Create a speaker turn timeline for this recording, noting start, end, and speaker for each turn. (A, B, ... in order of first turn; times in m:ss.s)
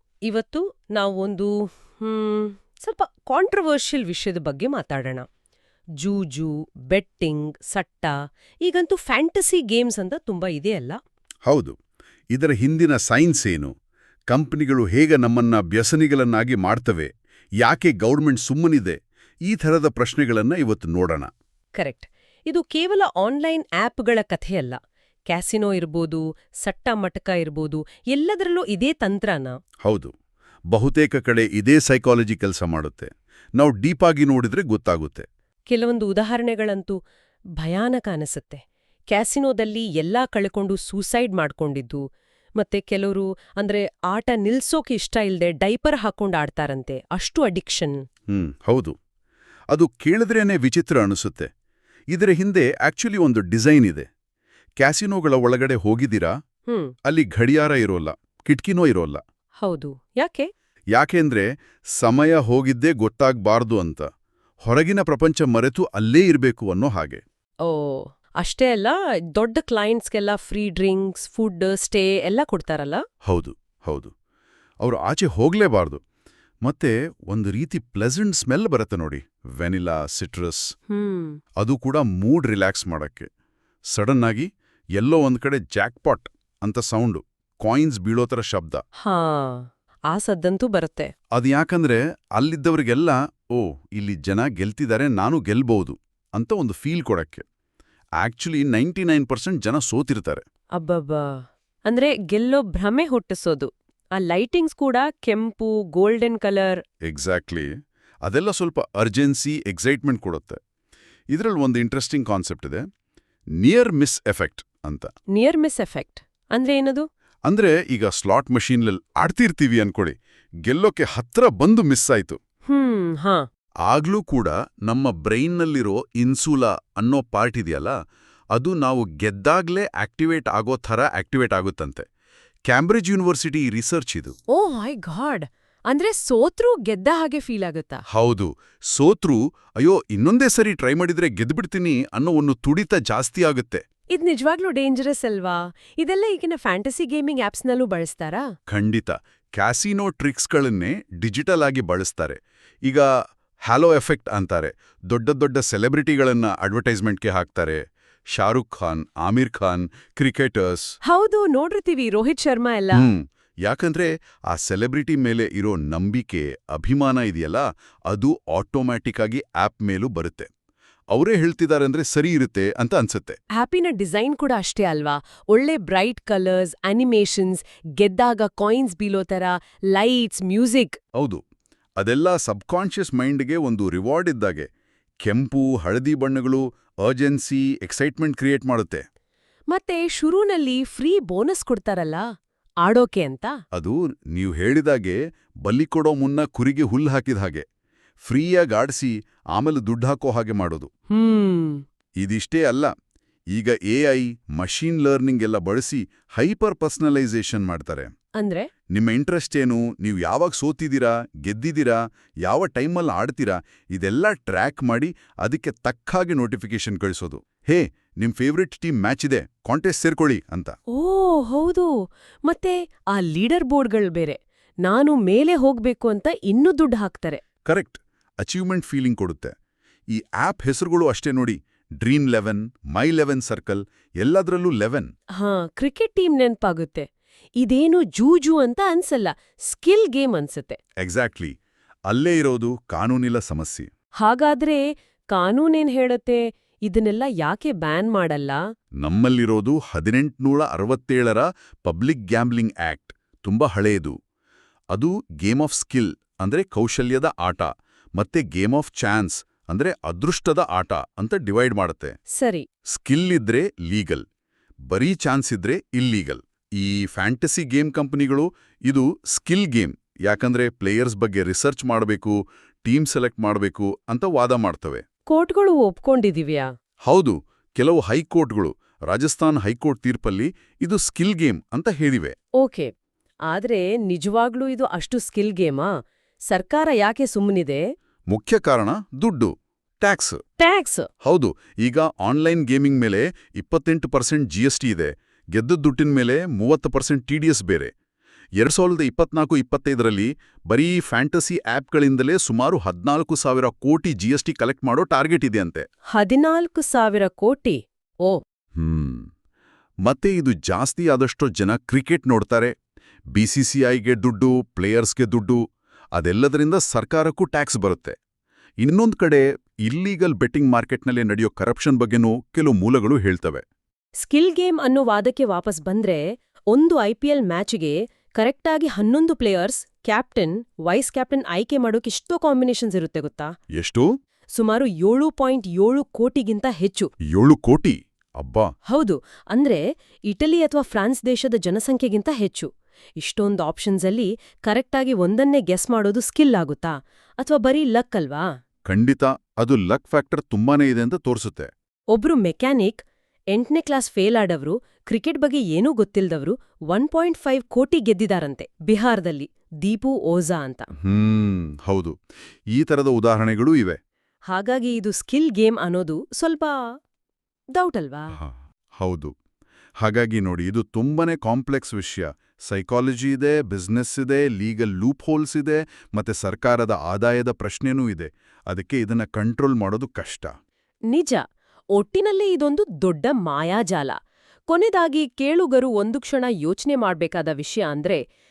0:00.3-0:05.3 A
0:06.0-0:08.1 A
0:08.6-0:11.0 A
0:11.5-0:11.8 B
0:12.3-0:13.7 B
0:14.3-0:21.3 B
0:21.8-0:24.8 A
0:25.3-0:29.6 A
0:29.8-0:30.1 B
0:30.7-0:35.3 B
0:35.7-0:37.0 A
0:37.6-0:42.0 A
0:42.6-0:48.0 A
0:48.3-0:48.9 B
0:49.7-0:51.5 B
0:52.1-0:54.1 B
0:54.8-0:56.3 B
0:56.7-0:57.0 A
0:57.0-0:59.2 B
0:59.6-1:00.5 A
1:00.9-1:04.1 B
1:04.6-1:07.2 B
1:07.6-1:13.0 A
1:13.2-1:14.1 B
1:14.8-1:16.0 B
1:16.6-1:20.7 B
1:20.9-1:21.4 A
1:21.6-1:23.3 B
1:23.9-1:28.8 B
1:29.0-1:31.1 A
1:31.3-1:37.4 B
1:38.2-1:40.4 B
1:40.8-1:46.8 A
1:47.0-1:47.7 B
1:48.2-1:50.6 B
1:51.3-1:52.8 B
1:53.6-1:55.1 B
1:55.3-1:57.1 A
1:57.5-2:02.4 B
2:02.7-2:03.5 A
2:03.9-2:08.0 B
2:08.5-2:12.0 B
2:12.7-2:14.3 B
2:14.5-2:18.0 A
2:18.1-2:23.8 B
2:24.1-2:28.5 A
2:28.7-2:33.1 B
2:33.7-2:40.9 B
2:41.0-2:43.0 A
2:42.9-2:50.5 B
2:51.1-2:53.4 B
2:53.6-3:01.0 A
3:01.2-3:01.4 B
3:02.0-3:04.7 B
3:05.2-3:09.0 B
3:09.7-3:12.2 A
3:12.8-3:13.5 A
3:13.7-3:17.6 B
3:18.2-3:20.9 B
3:21.1-3:21.8 A
3:22.2-3:22.9 B
3:23.5-3:28.1 B
3:28.4-3:28.7 A
3:28.9-3:40.8 B
3:40.9-3:41.9 A
3:42.5-3:47.4 A
3:47.7-3:49.5 B
3:50.1-3:55.1 B
3:55.4-3:57.1 A
3:57.6-4:00.8 A
4:01.0-4:01.5 B
4:02.1-4:03.9 B
4:04.2-4:08.6 A
4:09.0-4:14.2 B
4:14.9-4:22.1 B
4:22.4-4:22.7 A
4:22.9-4:24.2 B
4:24.9-4:35.0 B
4:35.3-4:36.7 A
4:37.1-4:42.4 B
4:42.6-4:42.9 A
4:43.5-4:45.9 A
4:46.5-4:47.8 A
4:48.3-4:50.4 B
4:50.6-4:51.1 A
4:51.2-4:57.9 B
4:58.6-5:05.9 B
5:06.1-5:08.4 A
5:08.8-5:09.3 B
5:10.0-5:12.7 B
5:13.3-5:15.6 B
5:16.2-5:18.2 B
5:18.8-5:23.6 B
5:24.2-5:33.5 A
5:33.8-5:34.1 B
5:34.6-5:37.1 A
5:37.3-5:38.7 B
5:38.9-5:48.5 A
5:48.9-5:51.7 B
5:52.1-6:00.9 A
6:01.0-6:02.1 B
6:02.7-6:04.0 B
6:04.5-6:06.8 A
6:07.8-6:08.4 A
6:08.3-6:09.3 B
6:10.0-6:20.5 B
6:21.1-6:21.4 A
6:22.0-6:24.2 A
6:24.7-6:28.2 A